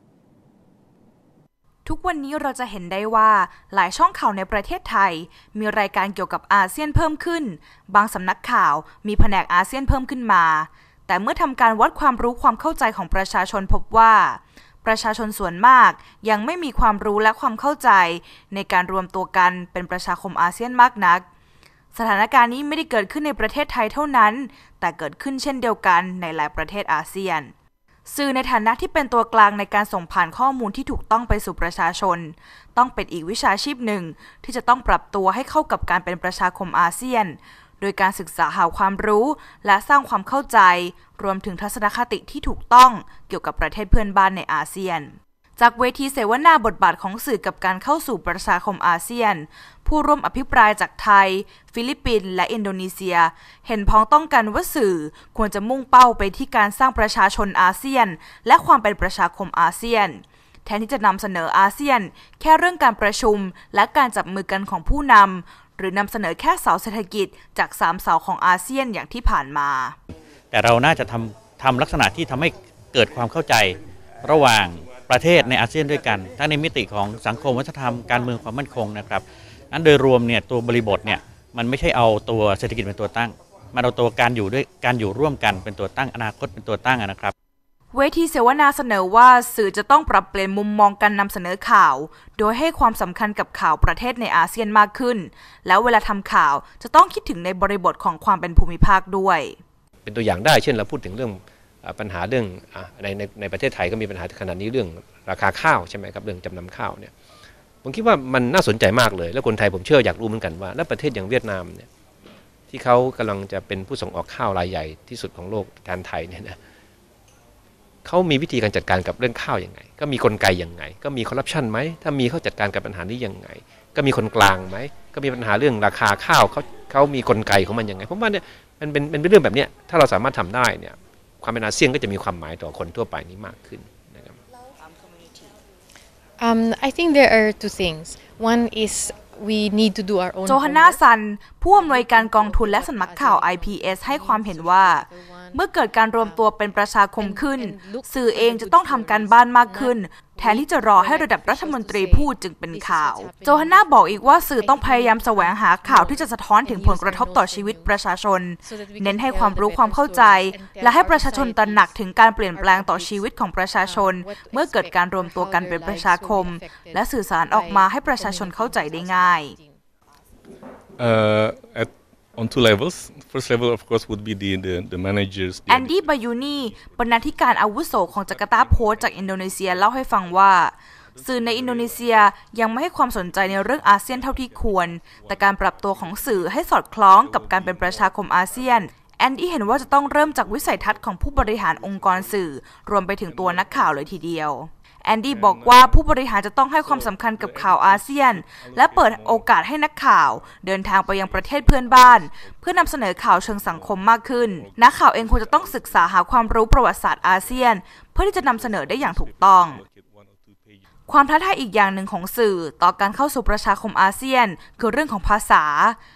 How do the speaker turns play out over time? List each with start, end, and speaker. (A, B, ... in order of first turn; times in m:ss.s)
0:01.8-0:21.2 A
0:21.9-0:27.5 A
0:28.1-1:10.0 A
1:10.5-1:27.3 B
1:27.9-1:39.6 A
1:40.0-1:47.1 C
1:47.8-1:51.9 C
1:52.7-1:56.6 C
1:58.0-2:14.4 C
2:16.4-2:21.0 D
2:20.4-2:49.6 A
2:21.7-2:38.1 D
2:38.6-2:49.8 D
2:51.0-3:02.4 E
2:55.7-3:29.8 A
3:03.0-3:14.4 E
3:15.2-3:19.6 E
3:20.1-3:30.8 E
3:31.1-3:36.0 A